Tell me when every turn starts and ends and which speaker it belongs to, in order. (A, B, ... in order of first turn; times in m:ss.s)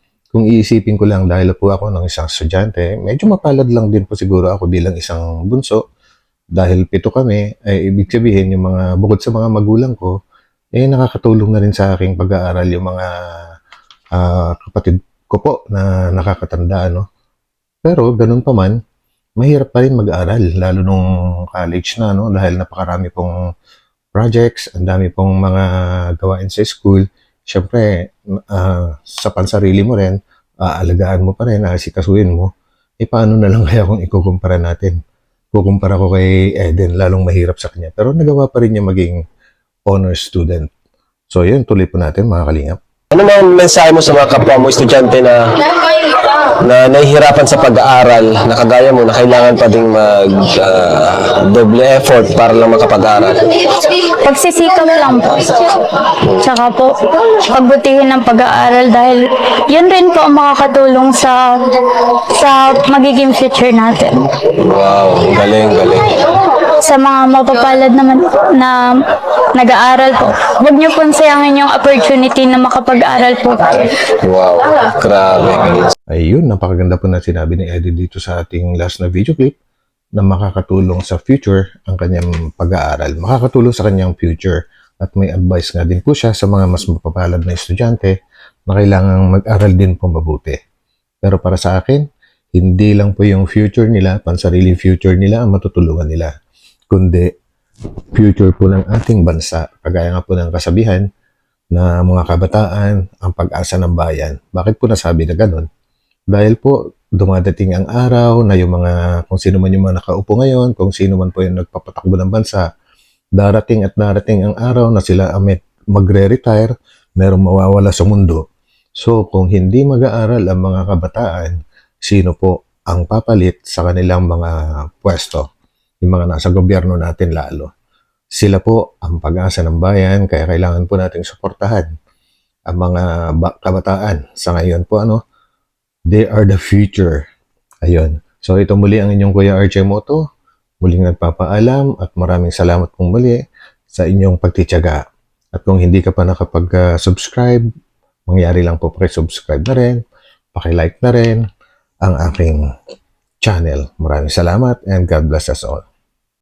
0:00.3-0:05.8 A
0:06.5-0:10.1 A
0:10.8-0:13.4 A
0:14.2-0:17.0 A
0:17.8-0:18.8 A
0:19.4-0:23.3 A
0:24.1-0:32.5 A
0:33.0-0:35.0 A
0:35.5-0:39.2 A
0:39.9-0:40.7 A
0:41.3-0:42.8 A
0:43.1-0:45.4 B
0:46.4-0:53.4 B
0:54.2-1:04.2 C
1:04.6-1:06.1 B
1:06.8-1:08.9 C
1:09.5-1:13.8 C
1:14.2-1:15.9 B
1:16.1-1:19.5 A
1:20.2-1:28.1 A
1:28.7-1:30.6 A
1:31.2-1:36.3 A
1:36.9-1:37.3 A
1:38.1-1:41.0 A
1:41.7-1:45.7 A
1:46.3-1:52.6 A
1:53.4-1:58.4 A
1:59.0-2:05.4 A
2:06.0-2:07.7 A
2:08.3-2:11.9 A
2:12.7-2:15.2 A
2:16.1-2:17.2 A
2:17.8-2:20.2 A
2:20.8-2:25.0 A
2:25.5-2:27.6 A
2:28.3-2:30.0 A
2:30.5-2:31.4 A
2:32.0-2:32.6 A
2:33.4-2:35.8 A